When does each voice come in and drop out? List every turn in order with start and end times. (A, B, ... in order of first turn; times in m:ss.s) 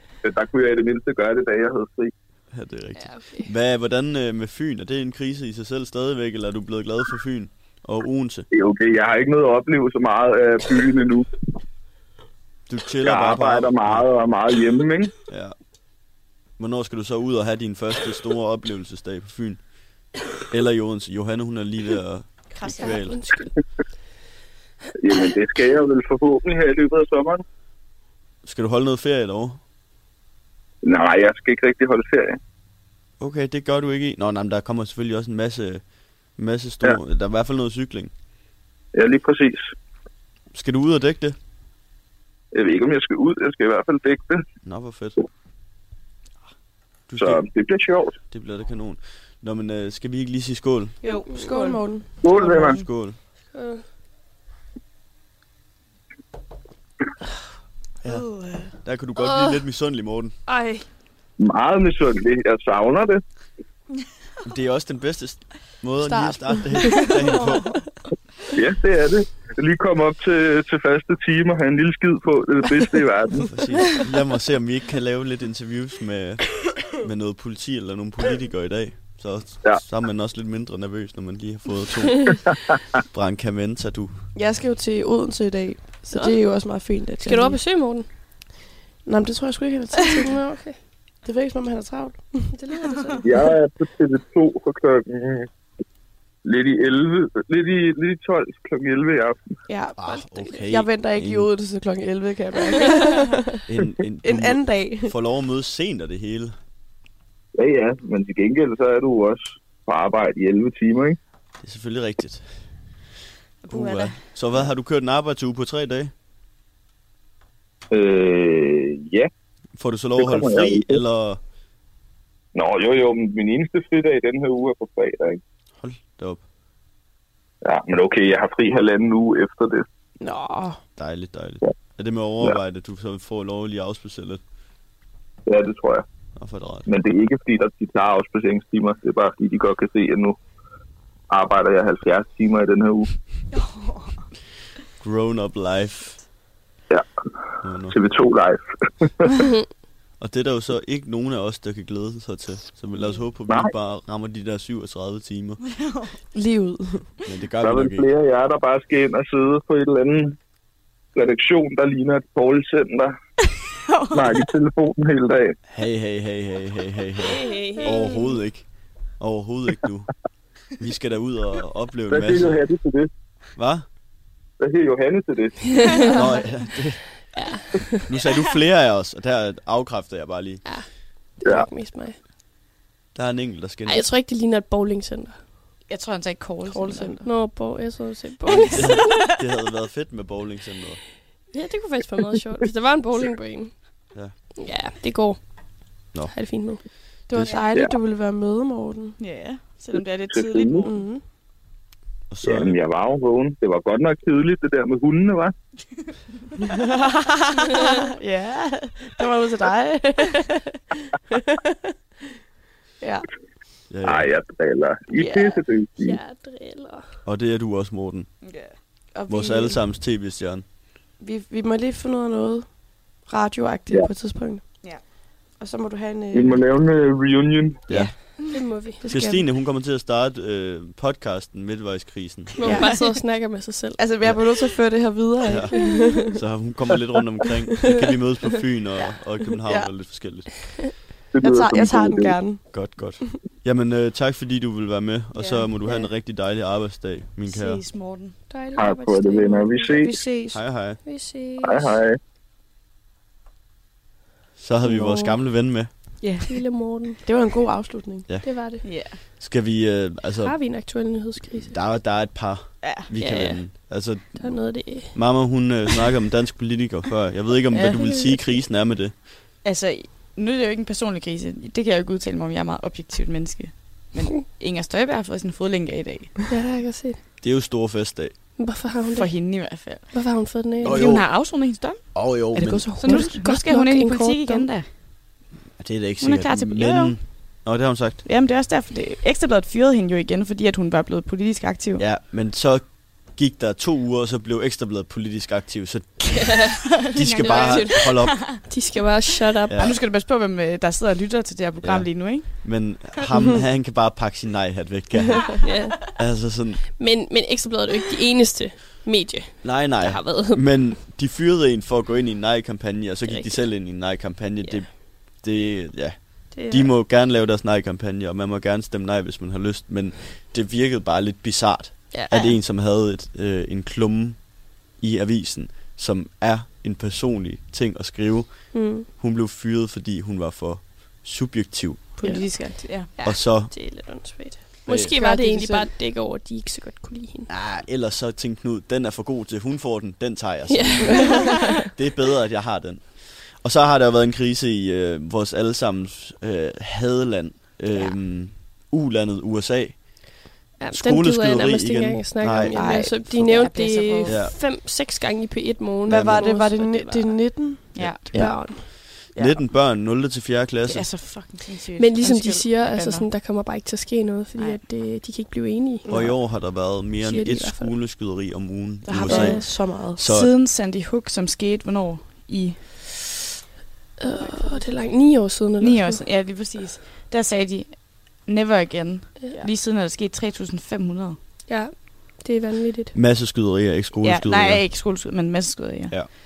0:00.2-0:02.1 A
0:02.5-0:08.5 B
0:03.0-0:03.5 C
0:08.5-0:11.3 A
0:12.7-0:14.1 B
0:13.0-0:15.1 A
0:15.3-0:15.6 B
0:16.6-0:19.6 B
0:20.5-0:23.4 B
0:22.6-0:23.5 C
0:25.0-0:27.4 A
0:28.4-0:29.6 B
0:30.8-0:32.4 A
0:33.2-0:35.8 B
0:36.4-0:38.1 B
0:39.0-0:39.7 A
0:40.5-0:41.4 B
0:42.5-0:44.4 A
0:44.6-0:45.2 B
0:47.1-0:47.4 B
0:47.2-0:48.2 A
0:48.3-0:51.0 B
0:51.0-0:51.8 D
0:51.0-0:52.2 E
0:51.3-0:51.7 C
0:52.2-0:52.8 A
0:52.2-0:53.2 B
0:53.5-0:53.8 C
0:58.0-0:58.3 B
0:58.8-1:00.4 B
0:59.2-0:59.6 C
1:00.5-1:00.8 C
1:01.4-1:03.2 A
1:04.4-1:07.8 B
1:06.0-1:07.2 E
1:07.3-1:07.7 D
1:08.6-1:13.5 A
1:13.5-1:22.5 B
1:23.1-1:24.1 B
1:24.4-1:27.6 E
1:26.1-1:26.4 C
1:27.2-1:28.1 C
1:29.0-1:30.4 E
1:30.0-1:30.8 C
1:31.2-1:32.3 E
1:32.5-1:33.3 C
1:33.2-1:35.5 A
1:36.4-1:39.4 A
1:39.7-1:40.1 E
1:40.0-1:41.5 B
1:40.1-1:40.6 C
1:40.6-1:43.6 E
1:43.7-1:46.6 B
1:44.2-1:45.1 E
1:47.6-1:51.2 A
1:51.6-1:52.5 B
1:53.6-1:54.2 D
1:53.7-1:56.1 B
1:57.9-1:59.3 A
1:59.8-2:01.4 B
2:00.2-2:01.0 A
2:02.5-2:05.4 A
2:05.8-2:06.4 B
2:07.6-2:09.9 A
2:10.2-2:10.8 E
2:11.0-2:14.4 B
2:15.5-2:16.0 A
2:16.4-2:16.9 B
2:16.9-2:20.4 A
2:21.3-2:23.1 A
2:25.0-2:26.2 B
2:27.6-2:28.0 B
2:27.9-2:29.4 A
2:30.2-2:35.6 B
2:35.7-2:36.2 D
2:36.3-2:37.1 E
2:37.2-2:38.1 B
2:37.6-2:40.4 A
2:41.2-2:43.1 A
2:43.9-2:44.4 D
2:44.1-2:45.6 A
2:45.7-2:50.1 B
2:47.2-2:48.4 C
2:50.7-2:52.6 B
2:52.1-2:53.1 A
2:53.6-2:53.9 B
2:54.6-2:55.8 A
2:56.1-2:57.3 B
2:57.3-2:58.0 C
2:58.1-3:00.6 B
3:01.4-3:02.2 C
3:03.1-3:04.1 B
3:03.9-3:05.4 C
3:05.9-3:07.2 D
3:06.7-3:07.3 E
3:07.2-3:09.3 C
3:08.5-3:11.0 B
3:11.5-3:16.8 C
3:17.3-3:19.2 E
3:19.2-3:21.0 D
3:20.3-3:20.9 A
3:20.8-3:21.2 E
3:22.3-3:22.8 B
3:22.4-3:25.5 A
3:26.6-3:31.8 E
3:33.9-3:34.3 B
3:34.0-3:36.2 A
3:35.1-3:35.6 E
3:36.0-3:37.1 C
3:37.3-3:38.3 B
3:38.4-3:38.8 D
3:39.1-3:39.8 E
3:39.3-3:40.6 B
3:41.2-3:44.9 E
3:45.6-3:46.6 E
3:46.3-3:47.9 A
3:47.9-3:48.1 B
3:47.9-3:48.3 E
3:48.5-3:49.0 C
3:49.0-3:49.5 E
3:49.1-3:52.6 B
3:52.6-3:54.0 C
3:52.6-3:53.0 E
3:54.0-3:56.4 E
3:55.4-4:01.0 B
3:55.7-3:56.1 C
3:59.6-3:59.9 E
4:01.3-4:02.4 A
4:01.4-4:02.6 E
4:02.7-4:07.8 B
4:05.4-4:05.7 D
4:07.5-4:08.4 D
4:08.5-4:10.1 C
4:08.8-4:10.2 A
4:10.0-4:10.6 E
4:10.5-4:11.0 B
4:11.0-4:12.0 C
4:11.6-4:12.2 A
4:14.6-4:16.2 B
4:14.8-4:15.4 E
4:16.2-4:16.6 E
4:16.5-4:17.2 C
4:17.2-4:18.3 E
4:18.3-4:20.8 B
4:18.4-4:18.8 C
4:18.8-4:19.2 D
4:20.4-4:21.8 C
4:21.6-4:29.2 B
4:23.2-4:25.1 C
4:27.7-4:28.2 D
4:29.6-4:36.4 D
4:36.5-4:37.2 C
4:37.4-4:38.4 B
4:38.6-4:41.0 C
4:39.1-4:40.1 D
4:40.8-4:41.6 B
4:40.8-4:44.9 D
4:42.1-4:43.0 B
4:42.6-4:43.4 E
4:43.0-4:44.7 C
4:45.8-4:48.2 B
4:46.2-4:47.2 D
4:48.2-4:52.0 D
4:52.0-4:58.7 B
4:56.4-4:56.7 C
4:57.1-4:58.6 D
4:57.4-4:59.8 C
4:59.7-5:00.0 B
4:59.8-5:02.8 D
5:01.8-5:06.9 B
5:05.6-5:06.0 C
5:07.0-5:10.9 C
5:09.6-5:32.1 B
5:13.3-5:13.7 C
5:16.5-5:16.9 C
5:22.1-5:22.4 C
5:28.7-5:29.1 C
5:32.2-5:33.1 D
5:32.2-5:37.5 C
5:33.2-5:34.0 B
5:34.9-5:35.1 B
5:35.0-5:35.9 E
5:37.5-5:52.8 B
5:40.7-5:41.7 C
5:50.8-5:57.5 C
5:52.7-5:53.3 E
5:53.3-5:54.4 D
5:54.3-5:54.6 B
5:56.1-5:58.6 E
5:56.1-5:56.4 B
5:58.0-5:58.6 D
5:58.3-5:58.8 C
5:59.2-6:01.1 B
6:00.8-6:03.3 D
6:02.0-6:07.9 C
6:06.1-6:06.4 E
6:06.1-6:10.5 B
6:09.0-6:10.2 E
6:09.3-6:13.1 D
6:14.2-6:16.2 C
6:15.8-6:21.4 D
6:21.7-6:23.1 C
6:23.1-6:24.9 B
6:24.2-6:26.2 D